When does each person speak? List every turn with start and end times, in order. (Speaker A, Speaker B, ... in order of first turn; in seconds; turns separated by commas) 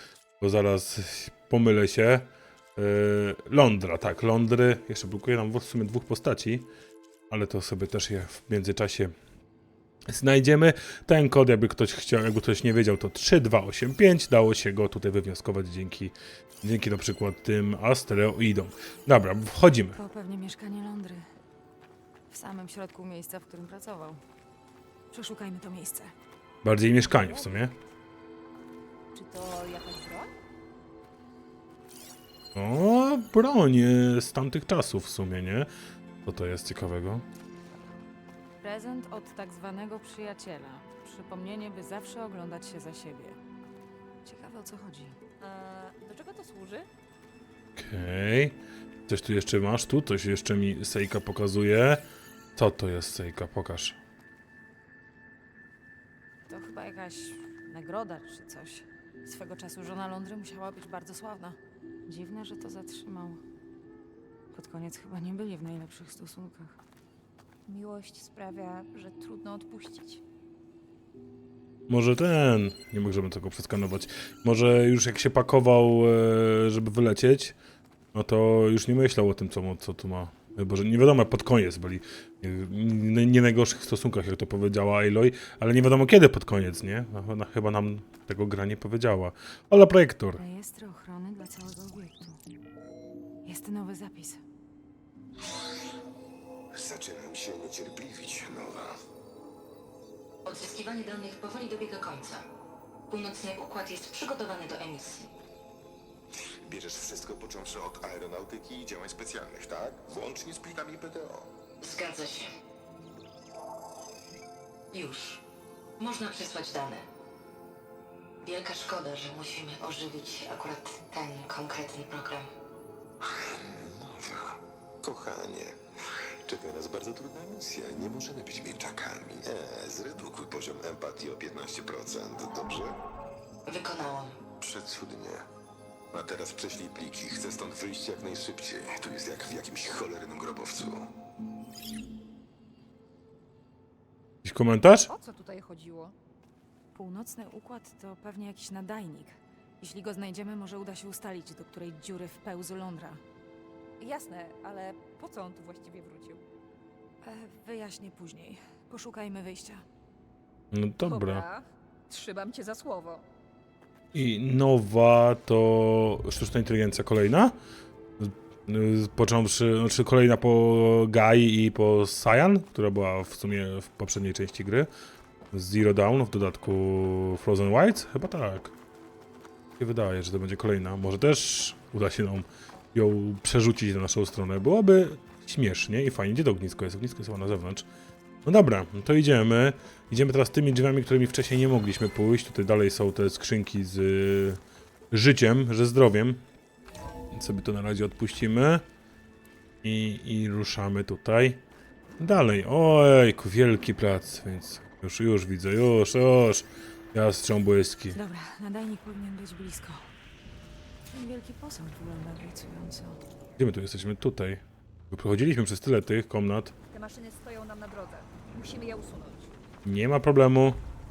Speaker A: 0.4-6.7, Speaker A: 7.3-9.1, Speaker A: 10.1-20.0, Speaker B: 19.9-21.3, Speaker B: 22.3-24.2, Speaker B: 25.1-26.1, Speaker A: 26.6-27.7, Speaker C: 27.1-27.6, Speaker C: 29.1-30.3, Speaker A: 32.5-35.7, Speaker A: 36.2-37.2, Speaker B: 38.6-43.4, Speaker B: 44.2-45.2, Speaker C: 45.4-46.9, Speaker A: 47.8-52.0, Speaker A: 52.5-54.0, Speaker B: 56.5-63.4, Speaker B: 64.5-66.8, Speaker C: 67.7-70.2, Speaker A: 71.9-77.5, Speaker A: 78.1-90.4, Speaker B: 90.4-92.4, Speaker B: 93.4-94.4, Speaker D: 96.7-99.0, Speaker E: 100.4-102.4, Speaker E: 103.1-105.3, Speaker D: 106.6-111.5, Speaker E: 111.8-112.5, Speaker E: 114.9-115.4, Speaker E: 116.0-117.0, Speaker E: 118.4-122.5, Speaker D: 123.2-125.8, Speaker D: 126.4-133.0, Speaker E: 133.7-134.4, Speaker D: 134.6-135.4, Speaker D: 136.1-141.1, Speaker A: 144.4-145.1, Speaker C: 145.1-146.1, Speaker B: 146.9-153.2, Speaker C: 154.0-156.4, Speaker B: 157.2-159.8, Speaker A: 160.7-161.4, Speaker C: 161.0-163.2, Speaker A: 164.1-167.6, Speaker A: 168.2-174.9, Speaker A: 175.5-178.7, Speaker A: 179.8-187.9, Speaker A: 188.4-194.6, Speaker A: 195.1-196.4, Speaker A: 197.3-198.8, Speaker A: 199.8-201.6, Speaker A: 202.2-208.2, Speaker B: 208.1-210.1, Speaker B: 211.1-213.2, Speaker A: 213.6-216.7, Speaker C: 216.9-219.5, Speaker A: 219.8-220.8